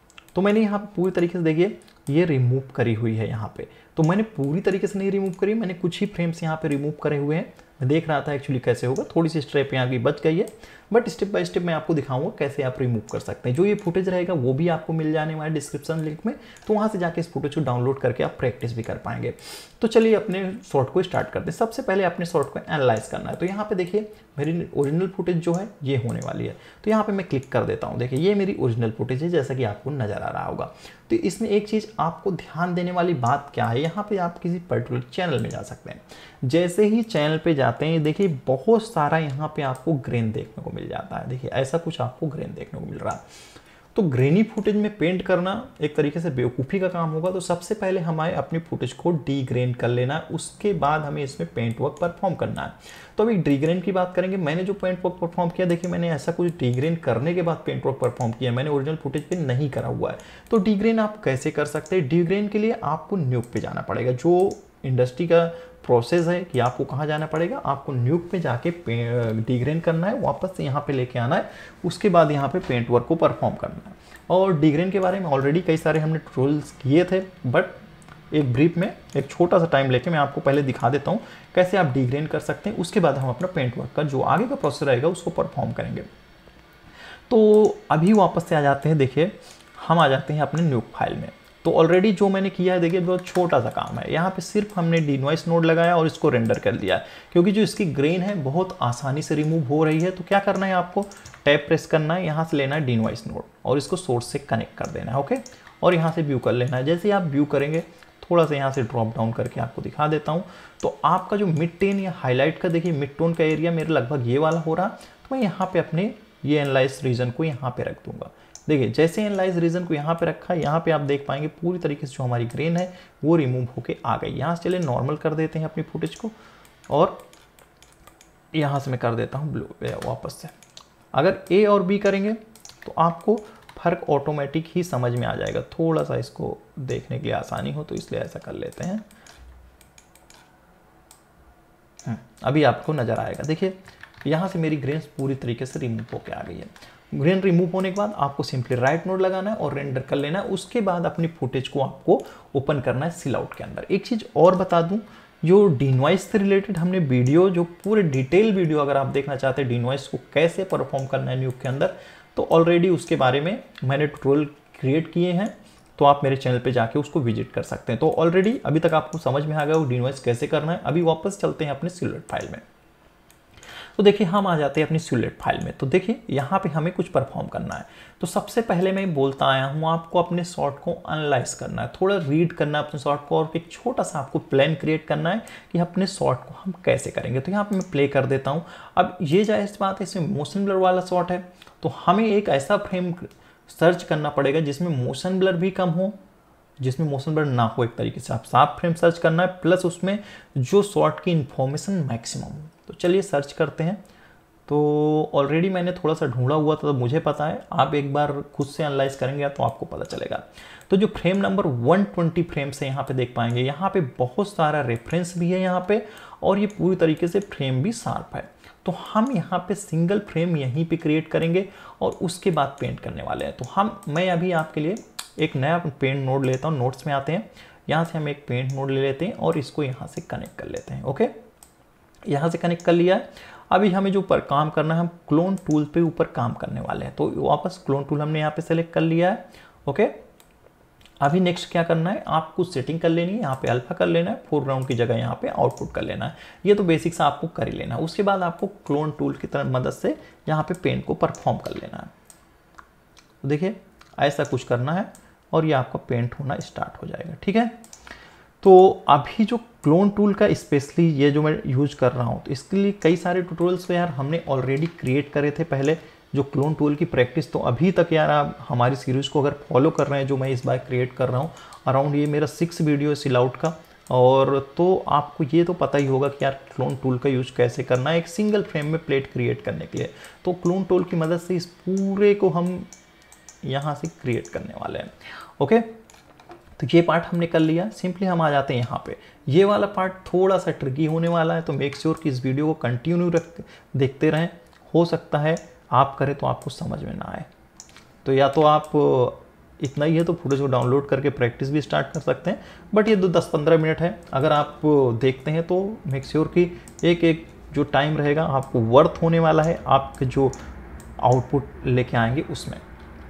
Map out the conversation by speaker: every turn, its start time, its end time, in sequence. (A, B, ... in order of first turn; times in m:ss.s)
0:00.3-0:43.2 A
0:43.9-1:17.8 A
1:18.3-1:26.1 A
1:27.3-2:06.4 A
2:06.9-2:07.2 A
2:08.5-2:10.5 A
2:11.1-2:19.1 A
2:22.0-2:52.6 A
2:54.0-3:16.2 A
3:16.8-3:24.0 A
3:24.7-3:51.3 A
3:52.3-4:00.2 A
4:01.2-4:12.1 A
4:13.4-4:17.8 A
4:18.6-4:42.9 A
4:43.6-4:45.9 A
4:46.8-4:57.5 A
4:58.2-5:10.6 A
5:11.2-5:12.8 A